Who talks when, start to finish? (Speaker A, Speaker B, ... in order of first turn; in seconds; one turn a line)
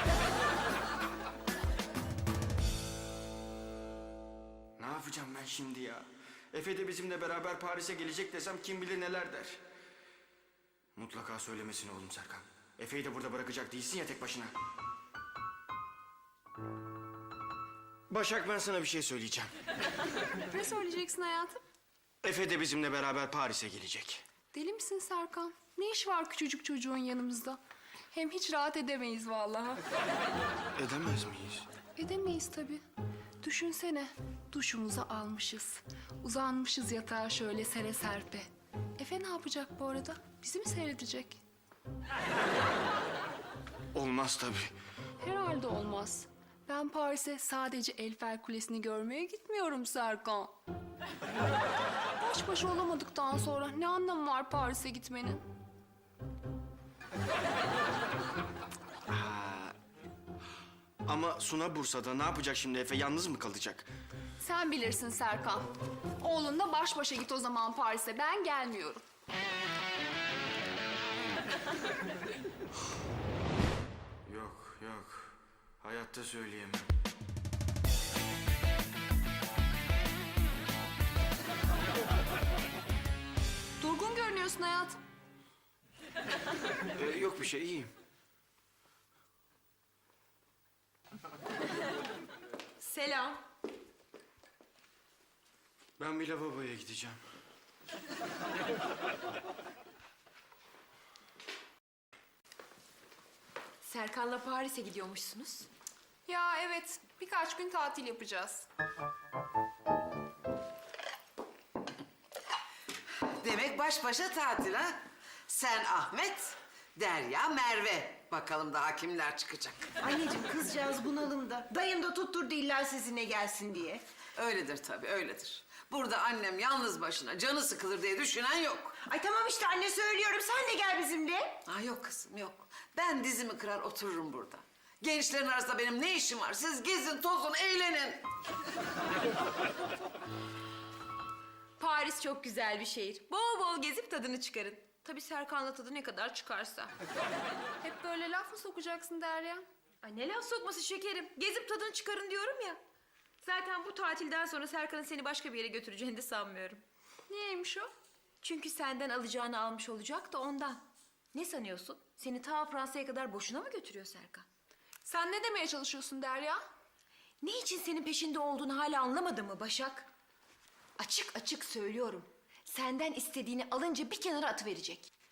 Speaker A: 4.8-9.6
Speaker A: 10.9-14.5
Speaker A: 18.1-19.5
Speaker B: 20.5-21.6
Speaker A: 22.2-24.2
Speaker B: 24.5-27.6
Speaker B: 28.1-29.8
Speaker A: 30.7-31.7
Speaker B: 31.9-32.8
Speaker B: 33.4-41.4
Speaker A: 43.9-44.7
Speaker B: 45.2-50.5
Speaker B: 52.2-55.4
Speaker A: 59.1-59.7
Speaker A: 61.0-63.9
Speaker B: 64.4-65.7
Speaker B: 66.2-69.0
Speaker A: 74.2-76.9
Speaker B: 83.8-85.0
Speaker A: 86.9-87.9
Speaker C: 92.8-93.4
Speaker A: 96.0-97.2
Speaker C: 103.8-105.7
Speaker B: 106.3-108.6
Speaker D: 113.3-120.0
Speaker E: 120.0-124.0
Speaker D: 124.3-129.0
Speaker E: 129.0-131.6
Speaker D: 131.6-138.2
Speaker C: 141.8-146.9
Speaker B: 147.8-149.6
Speaker C: 150.0-152.8
Speaker C: 153.4-156.8
Speaker B: 157.3-157.9
Speaker C: 158.4-160.8
Speaker C: 161.3-164.4
Speaker B: 165.0-166.6
Speaker C: 167.4-170.1
Speaker C: 171.0-175.1